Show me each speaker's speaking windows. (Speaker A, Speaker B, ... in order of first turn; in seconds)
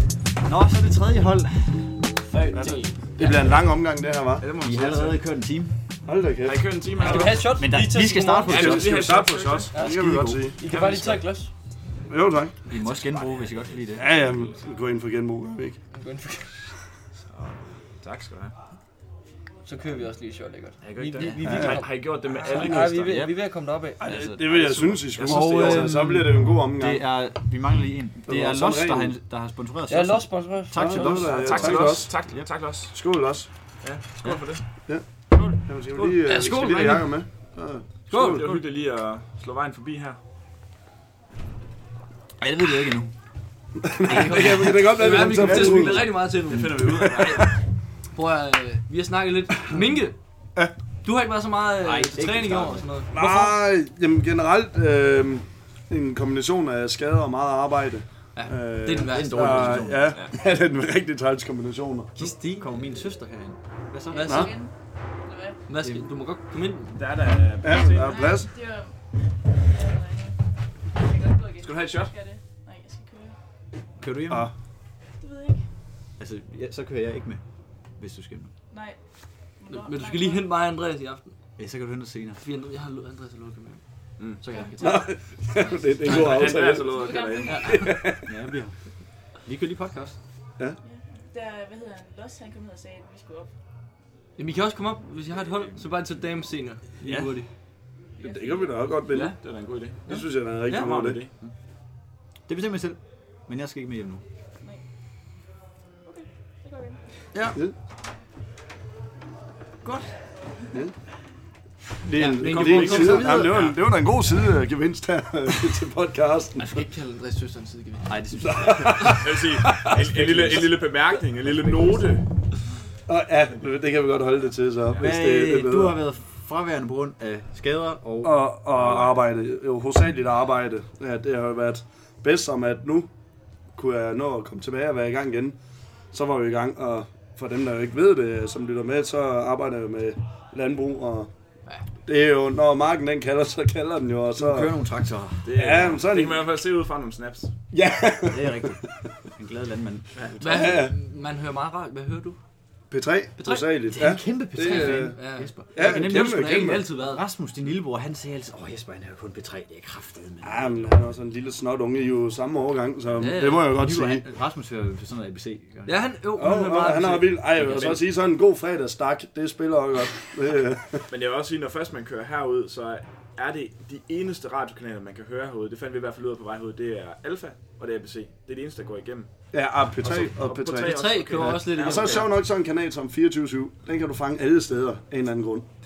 Speaker A: 0.4-2.1, 4.6-5.7, 7.1-9.2, 9.8-10.4, 12.7-14.2, 22.5-23.3, 24.0-24.5, 25.2-32.4, 42.4-43.1, 44.0-45.8, 51.8-52.9, 59.1-60.2, 62.2-64.5, 74.0-74.5, 76.2-77.4, 78.0-78.5, 81.6-82.4, 88.3-88.7, 89.4-90.2, 102.5-104.2, 118.1-119.3, 119.9-120.8, 125.0-128.4, 144.4-145.6, 148.3-150.1, 153.9-161.0, 163.7-165.9
Speaker B: 2.3-3.6, 7.0-8.7, 9.7-11.5, 15.9-16.6, 19.6-24.0, 29.9-31.1, 36.0-37.1, 38.1-38.6, 44.0-47.5, 48.1-50.2, 51.0-53.6, 58.3-59.8, 62.1-62.7, 64.1-64.6, 65.7-66.9, 79.7-81.3, 82.4-85.2, 86.0-86.6, 87.4-87.9, 94.4-97.5, 100.1-100.9, 112.2-113.6, 116.6-118.2, 150.4-152.4, 153.4-153.7, 154.6-157.2, 163.2-163.7, 165.8-168.0, 180.8-182.3
Speaker C: 2.5-4.5, 6.0-6.7, 8.5-10.6, 12.1-12.5, 13.9-15.8, 21.4-21.8, 22.6-23.0, 24.0-27.1, 28.2-29.1, 30.7-32.1, 32.9-33.5, 35.6-38.5, 43.8-46.3, 46.8-47.5, 53.1-62.1, 64.2-64.5, 67.6-68.5, 84.8-87.0, 87.6-88.3, 97.1-97.3, 98.2-99.4, 100.0-101.3, 112.0-116.8, 118.4-120.5, 123.1-126.0, 128.2-133.1, 133.7-135.6, 136.1-141.3, 142.1-144.7, 145.5-146.5, 147.7-148.7, 150.5-150.9, 152.9-155.2, 155.7-156.9, 160.4-164.2, 166.3-171.0, 179.5-185.7
Speaker D: 4.4-5.2, 6.4-7.5, 8.5-9.7, 10.7-11.2, 13.1-13.8, 17.3-18.5, 20.8-23.2, 24.5-26.0, 31.2-33.0, 33.8-34.6, 38.1-40.2, 46.5-47.5, 66.9-68.4, 71.6-72.1, 86.0-87.5, 99.1-100.1, 100.7-101.3, 112.4-113.8, 119.0-122.2, 128.7-129.2, 145.4-147.5, 150.2-150.6, 167.7-168.1, 171.1-179.3, 180.0-182.3
Speaker E: 64.1-64.7, 65.2-65.6, 67.9-68.9, 69.7-70.3, 71.0-73.3, 75.2-75.6, 78.7-79.0, 79.6-80.5, 86.9-87.8, 90.8-93.5, 98.2-98.7, 106.1-107.0